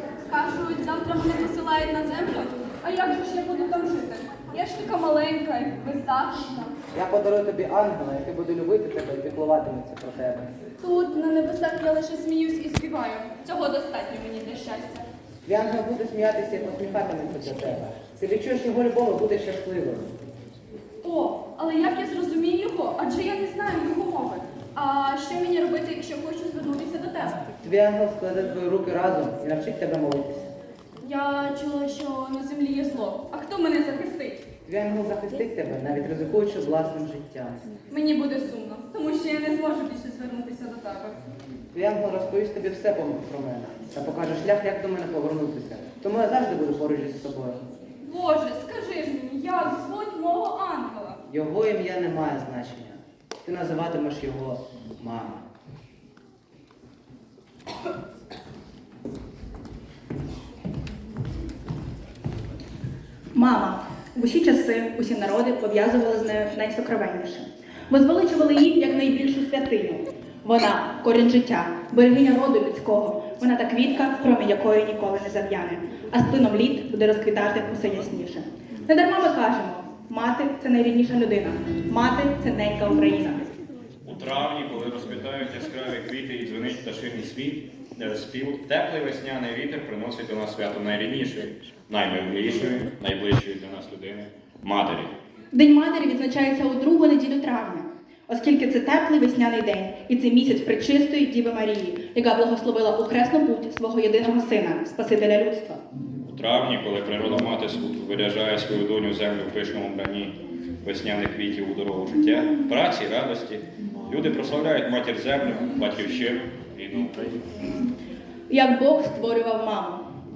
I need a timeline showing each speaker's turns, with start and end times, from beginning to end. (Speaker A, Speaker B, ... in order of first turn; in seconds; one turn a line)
Speaker A: 0.3-6.7
Speaker B: 6.9-10.5
Speaker A: 10.8-15.1
Speaker B: 15.4-20.1
Speaker A: 21.0-27.4
Speaker B: 27.6-30.5
Speaker A: 31.0-34.5
Speaker B: 34.6-37.8
Speaker A: 37.9-41.2
Speaker B: 41.7-47.7
Speaker A: 48.1-51.2
Speaker B: 51.3-55.4
Speaker C: 63.3-83.5
Speaker D: 84.0-95.1
Speaker C: 95.5-105.8
Speaker D: 106.3-117.5
Speaker C: 118.5-120.0